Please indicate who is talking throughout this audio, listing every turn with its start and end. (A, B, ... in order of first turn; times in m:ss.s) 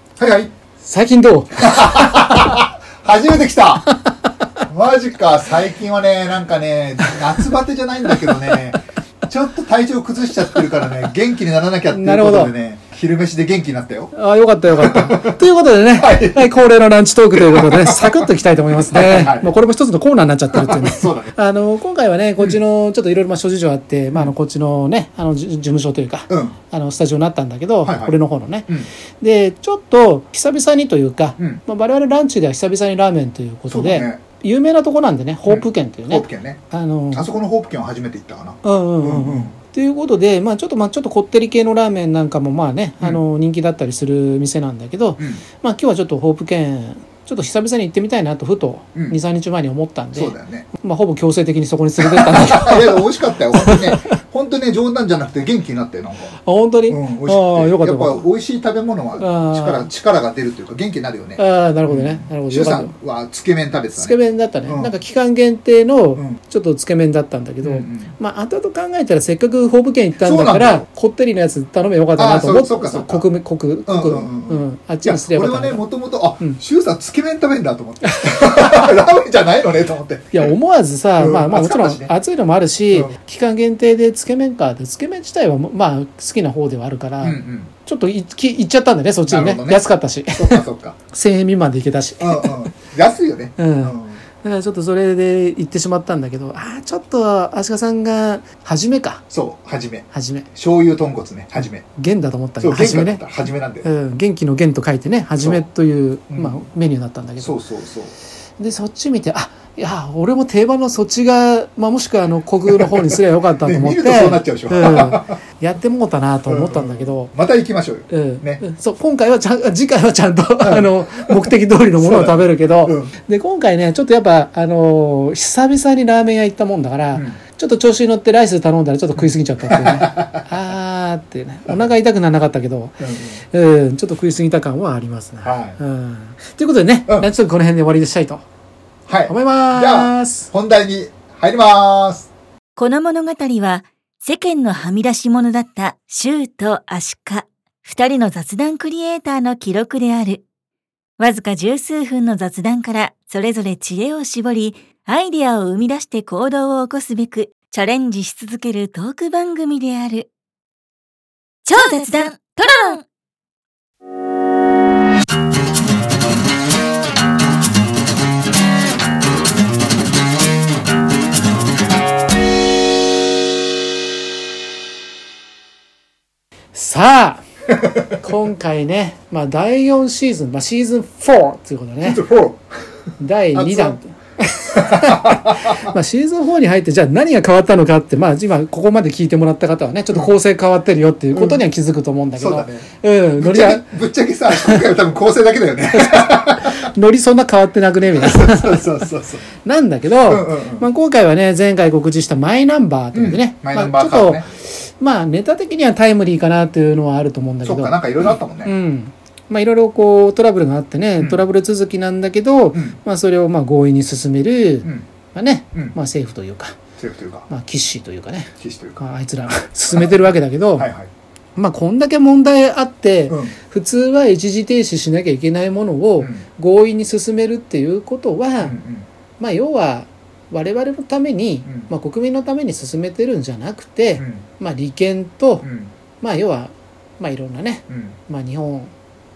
0:00.2-0:00.5 A
0:00.8-0:02.6 B
0:01.6-0:03.9 A
0:03.9-0:04.1 B
0:04.7-0:14.1 A
0:11.9-0:12.5 B
0:14.1-0:37.3 B
0:14.8-0:15.4 A
0:15.9-0:16.6 A
0:17.3-0:18.3 A
0:18.9-0:19.5 A
0:20.5-0:21.3 A
0:26.3-0:26.6 A
0:27.8-0:28.9 A
0:33.7-0:34.2 A
0:35.5-0:36.6 A
0:37.1-0:39.6 A
0:38.6-0:54.2 B
0:50.1-0:50.7 A
0:52.0-0:56.3 A
0:56.4-0:58.2 B
0:56.9-1:04.9 A
0:59.2-0:59.9 B
1:01.4-1:02.9 B
1:04.0-1:15.8 B
1:07.6-1:08.1 A
1:10.2-1:10.8 A
1:12.2-1:13.2 A
1:13.8-1:20.5 A
1:18.0-1:18.9 B
1:20.3-1:32.7 B
1:21.2-1:22.1 A
1:27.2-1:27.7 A
1:29.3-1:31.0 A
1:32.2-1:34.2 A
1:33.6-1:39.2 B
1:39.3-1:41.8 A
1:40.1-1:40.5 B
1:42.0-1:43.2 B
1:42.6-1:43.9 A
1:43.8-1:47.6 B
1:45.4-1:45.6 A
1:46.3-1:46.6 A
1:47.4-1:48.1 A
1:48.6-1:57.3 B
1:52.7-1:55.4 A
1:56.5-1:58.6 A
1:58.1-2:18.4 B
2:00.6-2:03.1 A
2:07.1-2:07.4 A
2:09.2-2:10.5 A
2:13.0-2:13.4 A
2:15.4-2:15.8 A
2:19.1-2:22.3 A
2:19.3-2:20.5 B
2:22.8-2:30.4 C
2:31.2-2:40.3 C
2:41.6-2:43.0 C
2:56.7-2:57.4 B
2:58.1-3:02.2 B
3:02.0-3:02.7 A
3:03.2-3:13.8 B
3:03.5-3:04.0 A
3:04.7-3:05.9 A
3:11.3-3:11.6 A
3:12.4-3:12.9 A
3:13.4-3:16.9 A
3:14.5-3:14.9 B
3:15.9-3:19.0 B
3:18.1-3:19.5 A
3:19.6-3:28.0 B
3:20.3-3:20.9 A
3:23.1-3:24.5 A
3:27.6-3:28.7 A
3:28.6-3:36.8 B
3:31.2-3:31.4 A
3:37.0-3:37.5 A
3:37.5-3:40.9 B
3:38.6-3:39.0 A
3:39.9-3:40.2 A
3:40.7-3:41.1 A
3:41.6-3:48.8 B
3:43.3-3:43.5 A
3:46.2-3:46.4 A
3:48.6-3:49.1 A
3:49.4-3:55.6 B
3:51.6-3:51.9 A
3:54.2-3:54.4 A
3:55.6-3:55.9 A
3:56.2-3:58.9 B
3:57.9-3:58.2 A